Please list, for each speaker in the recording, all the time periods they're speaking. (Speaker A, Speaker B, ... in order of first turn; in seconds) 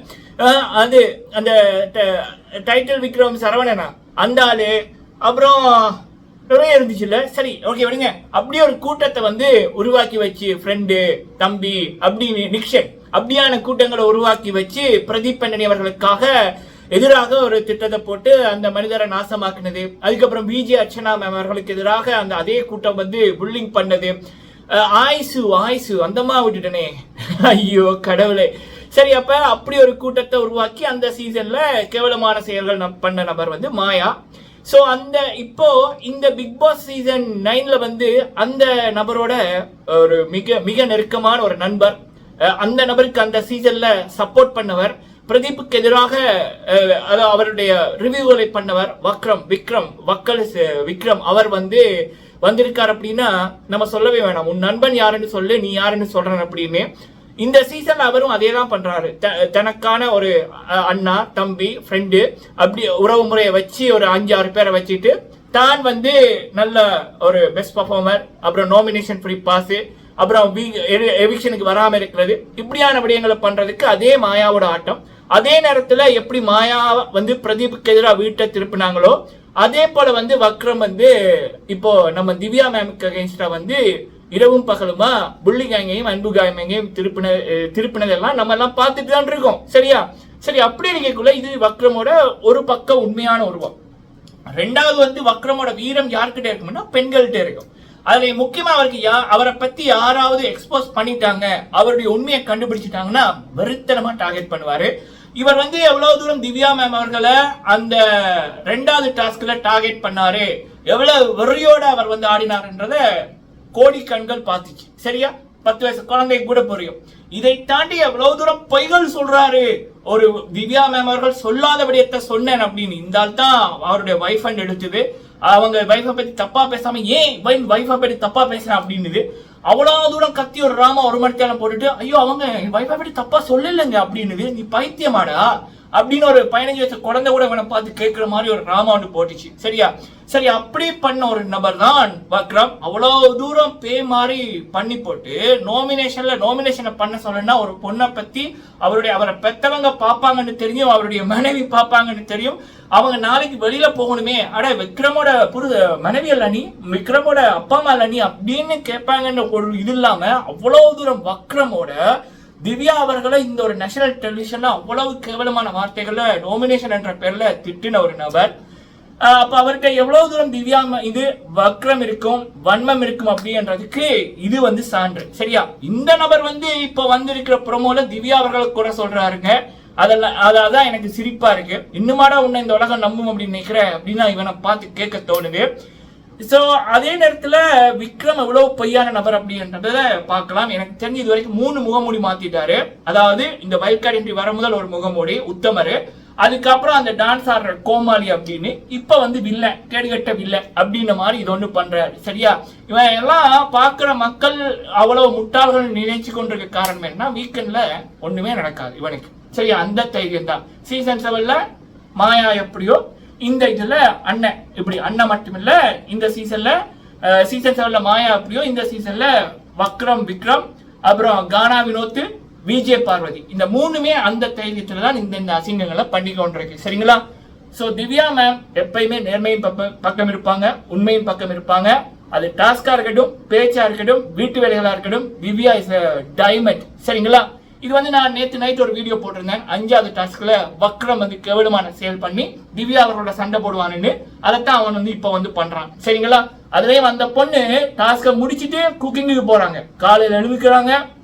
Speaker A: 0.4-6.0, 6.5-16.3, 16.9-24.1, 24.7-34.1, 34.6-51.8, 52.4-56.9, 57.4-81.1, 81.7-83.8, 84.3-93.7, 94.5-113.0, 113.7-161.9, 162.6-168.5, 169.2-185.7, 186.4-211.6, 212.2-227.2, 227.7-251.0